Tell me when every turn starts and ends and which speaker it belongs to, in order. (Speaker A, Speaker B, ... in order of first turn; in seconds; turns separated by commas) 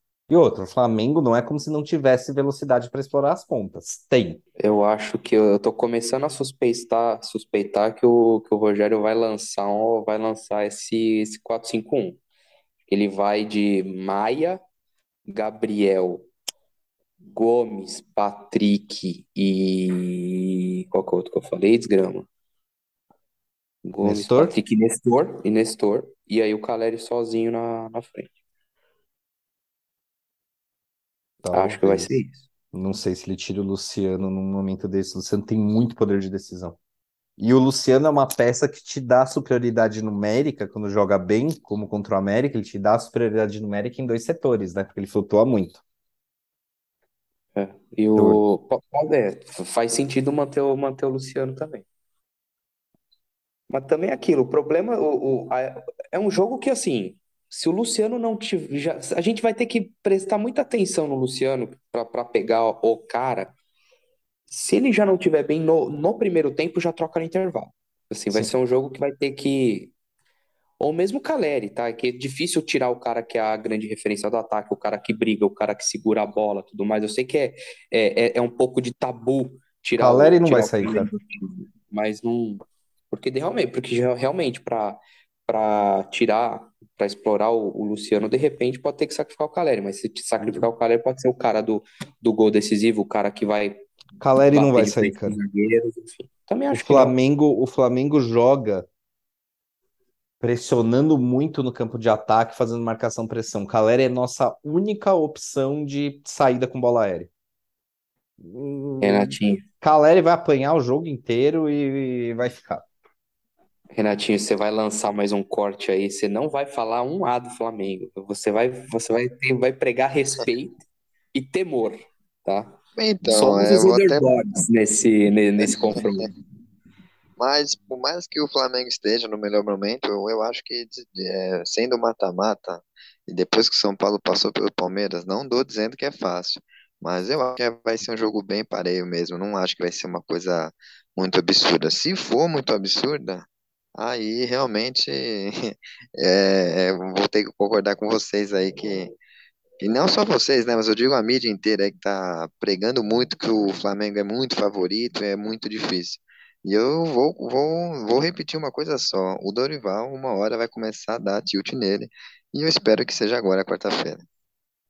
Speaker A: 0.3-4.4, Speaker B: 4.6-12.2, Speaker B: 12.9-14.6, Speaker B: 15.3-16.3, Speaker B: 17.3-22.3, Speaker B: 23.8-28.3, Speaker A: 24.0-24.6, Speaker A: 31.4-32.2, Speaker B: 31.5-32.4, Speaker A: 32.7-36.8, Speaker A: 37.4-45.8, Speaker B: 47.5-51.9, Speaker A: 48.1-48.4, Speaker B: 53.7-63.5, Speaker B: 64.5-69.9, Speaker B: 70.8-93.8, Speaker A: 80.0-81.1, Speaker A: 94.2-95.4, Speaker B: 94.4-97.1, Speaker A: 96.7-98.9, Speaker A: 100.4-107.3, Speaker A: 108.4-112.9, Speaker B: 109.0-109.6, Speaker B: 113.9-120.8, Speaker B: 121.3-126.3, Speaker C: 123.0-124.4, Speaker C: 125.6-126.0, Speaker C: 127.4-149.2, Speaker C: 149.8-164.2